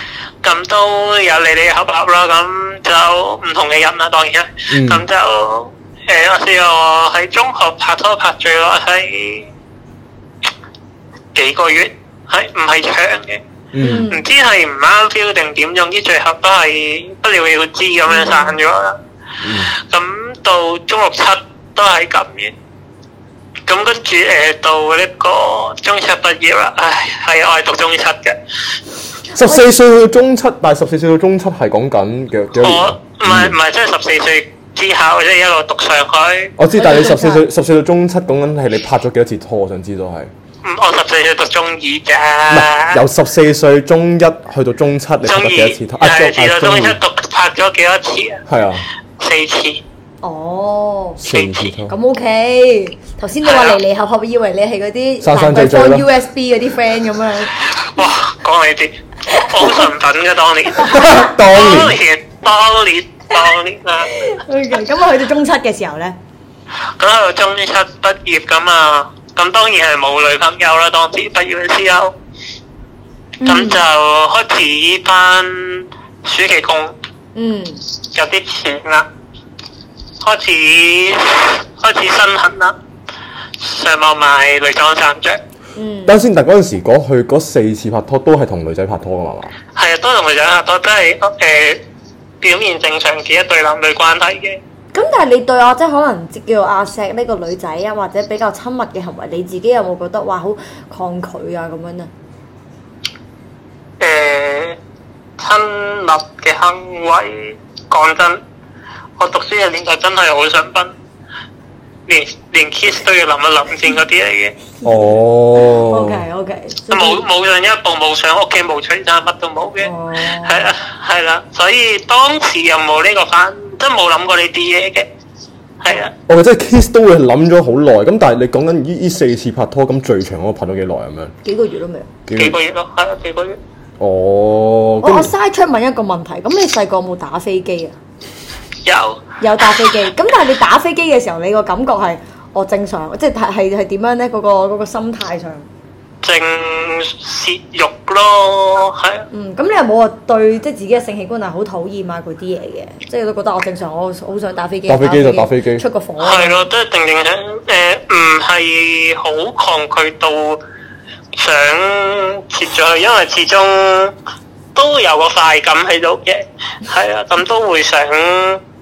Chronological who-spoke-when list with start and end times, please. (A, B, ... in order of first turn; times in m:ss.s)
0:00.4-0:09.5 A
0:04.7-0:05.0 B
0:11.3-0:13.4 A
0:13.7-0:14.1 B
0:13.8-0:14.2 C
0:14.1-0:19.0 A
0:18.1-0:18.6 C
0:19.4-0:19.7 B
0:19.8-0:22.5 A
0:23.7-0:28.4 A
0:29.3-0:33.6 B
0:32.6-0:36.5 A
0:36.6-0:40.3 B
0:36.8-0:37.4 C
0:40.6-0:43.0 A
0:42.5-0:47.0 B
0:45.2-0:48.4 A
0:48.5-0:48.8 B
0:49.2-0:49.8 A
0:50.2-0:51.2 C
0:51.2-0:51.9 B
0:51.3-0:51.7 A
0:51.9-0:57.6 C
0:53.4-0:53.8 A
0:55.2-0:56.1 B
0:57.6-1:04.3 A
0:59.2-0:59.9 C
1:00.8-1:01.2 C
1:00.8-1:02.0 B
1:04.1-1:06.1 C
1:07.0-1:12.1 A
1:13.4-1:13.8 C
1:13.4-1:16.9 A
1:17.3-1:17.8 C
1:18.0-1:19.1 A
1:20.2-1:22.8 A
1:23.6-1:25.4 A
1:25.7-1:26.2 C
1:26.1-1:29.5 B
1:29.7-1:31.8 A
1:32.4-1:34.6 A
1:34.9-1:42.1 C
1:44.0-1:44.8 A
1:45.4-1:48.4 A
1:49.2-1:50.9 A
1:52.1-1:54.6 A
1:54.8-1:57.2 C
1:54.8-1:56.2 B
1:56.9-2:05.1 A
1:59.8-2:00.7 C
2:05.8-2:06.1 A
2:06.3-2:11.3 B
2:11.4-2:12.1 C
2:12.3-2:12.6 B
2:12.4-2:13.6 A
2:14.0-2:15.3 B
2:15.0-2:17.9 C
2:18.8-2:19.9 A
2:19.4-2:25.7 C
2:26.2-2:29.2 A
2:29.3-2:36.7 C
2:34.9-2:35.8 B
2:36.2-2:40.6 A
2:41.3-2:44.1 A
2:44.7-2:48.6 A